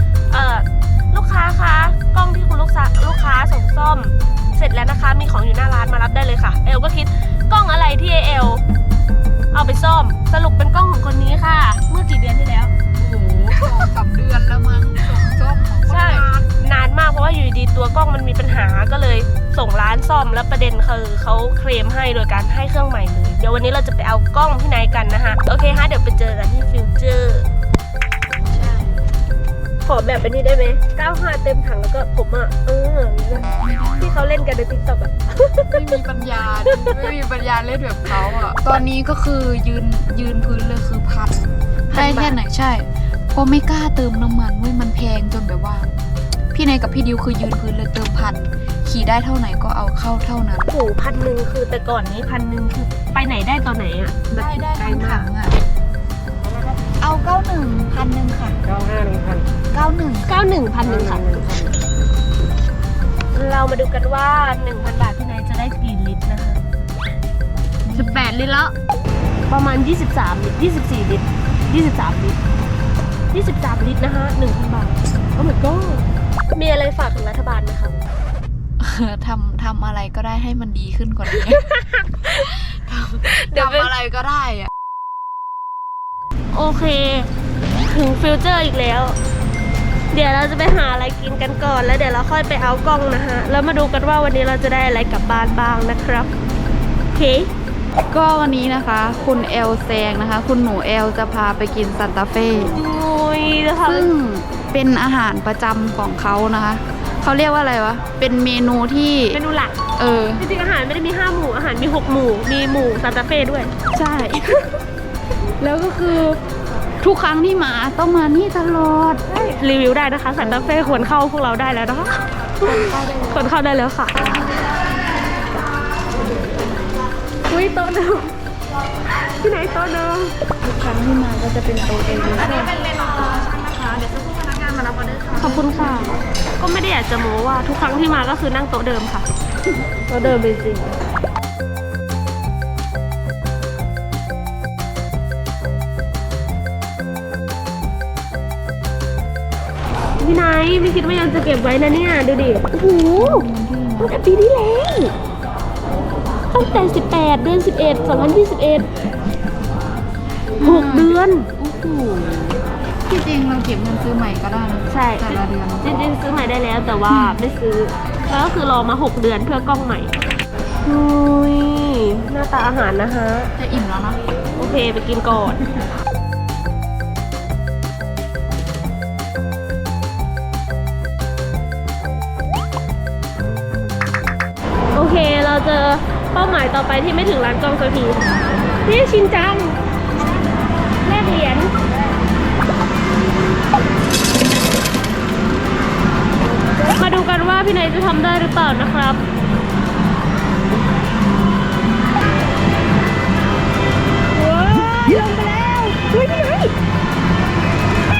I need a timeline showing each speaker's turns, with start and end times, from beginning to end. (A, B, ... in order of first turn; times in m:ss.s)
0:00.3-0:08.6 A
0:09.5-0:12.7 A
0:12.9-0:16.5 B
0:15.8-0:27.5 A
0:28.4-0:29.0 B
0:29.8-0:36.0 A
0:33.3-0:34.2 B
0:35.7-0:45.9 B
0:36.7-0:37.1 A
0:41.9-0:42.4 A
0:46.5-0:50.7 B
0:50.7-0:55.3 A
0:54.3-0:55.6 B
0:57.0-0:58.6 B
0:58.9-0:59.4 A
0:59.7-1:00.4 B
1:00.2-1:01.7 A
1:03.3-1:06.6 A
1:07.8-1:08.4 B
1:07.9-1:08.7 A
1:09.5-1:12.4 A
1:13.3-1:17.9 A
1:18.8-1:21.7 B
1:21.3-1:22.7 A
1:22.4-1:24.7 B
1:23.2-1:23.9 A
1:26.5-1:27.3 A
1:27.8-1:29.2 A
1:30.1-1:36.3 A
1:37.1-1:37.5 A
1:38.1-1:42.7 B
1:42.6-1:44.1 A
1:43.8-1:49.4 B
1:49.3-1:49.8 A
1:50.0-1:50.4 B
1:50.4-1:53.7 A
1:53.9-1:54.7 B
1:55.6-1:56.4 B
1:57.0-1:59.2 B
1:59.3-2:04.1 A
2:00.4-2:01.0 B
2:02.6-2:03.4 B
2:07.5-2:08.3 A
2:09.3-2:10.4 A
2:10.6-2:16.2 B
2:15.4-2:19.3 A
2:20.0-2:20.9 A
2:30.2-2:33.4 A
2:33.2-2:34.2 B
2:34.0-2:35.1 A
2:36.5-2:38.9 A
2:40.6-2:45.9 B
2:40.6-2:41.5 A
2:44.9-2:50.1 A
2:47.1-2:47.4 B
2:50.8-2:53.5 A
2:53.6-2:54.2 B
2:54.6-2:55.6 A
3:04.9-3:08.2 A
3:08.8-3:09.8 A
3:11.0-3:11.7 A
3:16.9-3:19.2 A
3:24.3-3:26.7 A